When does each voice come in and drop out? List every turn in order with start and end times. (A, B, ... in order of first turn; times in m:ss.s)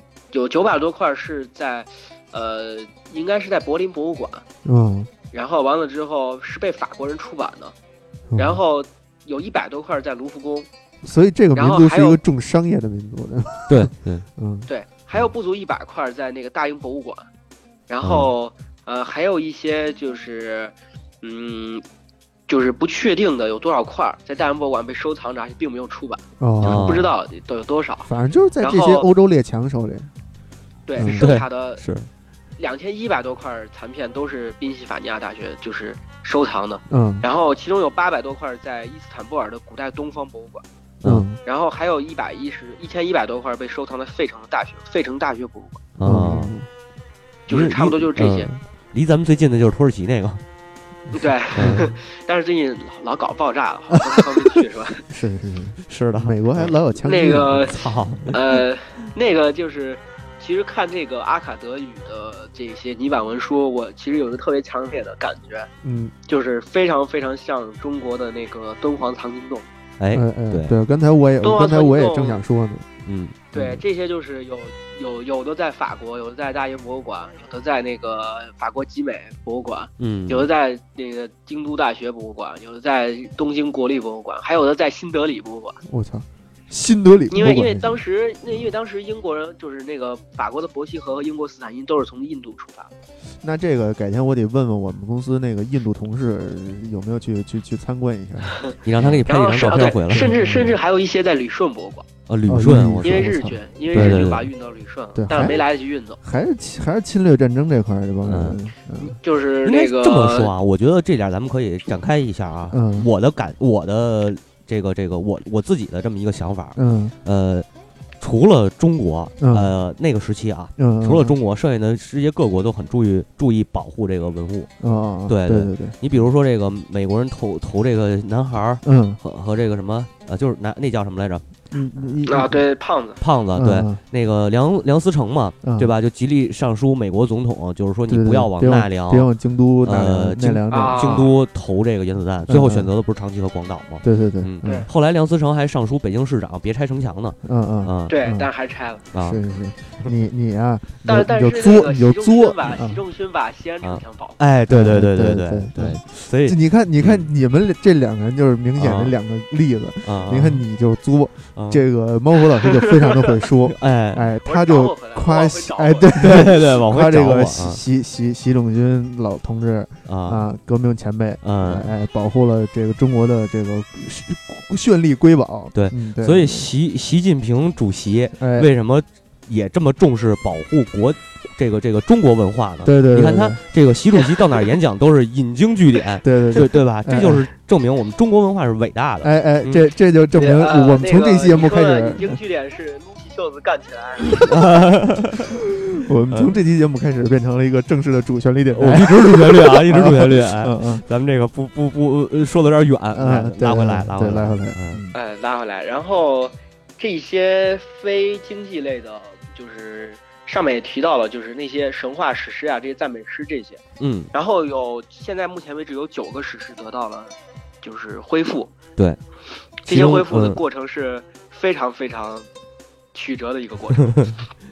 0:00.3-0:04.4 A
0:04.6-0:05.1 B
0:05.3-0:07.7 A
0:08.3-0:08.6 B
0:08.4-0:10.7 A
0:11.0-0:14.7 B
0:11.5-0:12.2 A
0:13.7-0:14.3 C
0:14.7-0:17.3 A
0:17.9-0:21.8 A
0:18.0-0:18.3 C
0:22.5-0:28.1 A
0:26.4-0:27.1 B
0:26.6-0:27.1 C
0:28.1-0:30.1 B
0:28.6-0:29.1 A
0:30.9-0:31.8 A
0:31.0-0:31.3 B
0:31.0-0:32.1 C
0:32.6-0:40.6 A
0:36.9-0:37.3 B
0:41.0-0:41.4 B
0:41.4-0:45.8 A
0:46.0-0:46.6 C
0:46.0-0:46.7 B
0:47.5-0:48.5 A
0:47.5-0:50.4 C
0:51.1-0:55.0 A
0:51.6-0:51.9 C
0:51.6-0:51.9 B
0:55.1-0:57.9 B
0:55.9-0:56.8 C
0:57.0-1:05.7 A
0:57.6-0:58.4 C
1:05.8-1:06.1 B
1:06.3-1:09.7 A
1:10.0-1:10.8 C
1:10.1-1:12.9 B
1:11.4-1:12.4 A
1:13.1-1:13.4 C
1:13.5-1:25.8 A
1:13.6-1:13.8 B
1:20.0-1:20.5 C
1:25.8-1:28.0 B
1:27.3-1:32.9 A
1:33.4-1:39.2 B
1:38.8-1:40.4 C
1:39.3-1:42.1 A
1:40.1-1:40.8 B
1:42.3-1:43.3 C
1:42.5-1:44.2 B
1:43.0-1:46.2 A
1:43.9-1:44.5 C
1:45.2-1:45.6 B
1:46.2-1:49.2 B
1:48.2-1:48.6 C
1:49.0-1:50.5 A
1:49.6-1:57.7 C
1:52.7-1:53.1 B
1:56.8-1:57.2 B
1:58.2-2:04.7 C
1:59.4-1:59.7 B
2:00.8-2:01.4 B
2:04.8-2:06.0 B
2:05.3-2:11.4 C
2:08.8-2:09.2 B
2:11.7-2:12.6 B
2:12.3-2:13.2 A
2:13.2-2:19.3 C
2:13.6-2:14.0 B
2:15.6-2:15.9 B
2:18.1-2:21.3 B
2:19.8-2:28.2 C
2:20.7-2:21.3 A
2:22.5-2:22.9 B
2:24.0-2:24.9 B
2:27.4-2:28.5 B
2:28.1-2:29.0 A
2:29.1-2:29.4 C
2:29.2-2:33.0 B
2:31.0-2:34.4 A
2:33.8-2:37.3 C
2:34.7-2:56.7 B
2:38.8-2:39.2 C
2:40.1-2:40.6 C
2:41.6-2:41.8 C
2:42.8-2:43.3 A
2:43.7-2:44.3 C
2:44.4-2:46.6 A
2:46.2-2:47.8 C
2:50.1-2:50.4 C
2:51.4-2:51.9 C
2:55.7-3:09.9 C
2:58.4-2:58.7 B
3:02.8-3:03.6 B
3:06.2-3:07.5 B
3:09.2-3:12.4 B
3:10.4-3:14.5 A
3:14.5-3:15.5 C
3:15.5-3:21.0 B
3:18.7-3:25.0 C
3:23.1-3:25.2 B
3:25.1-3:33.8 A
3:34.0-3:34.3 C
3:34.3-3:38.7 A
3:39.8-3:42.5 A
3:39.9-3:40.6 C
3:43.1-3:44.2 A
3:44.1-3:44.3 C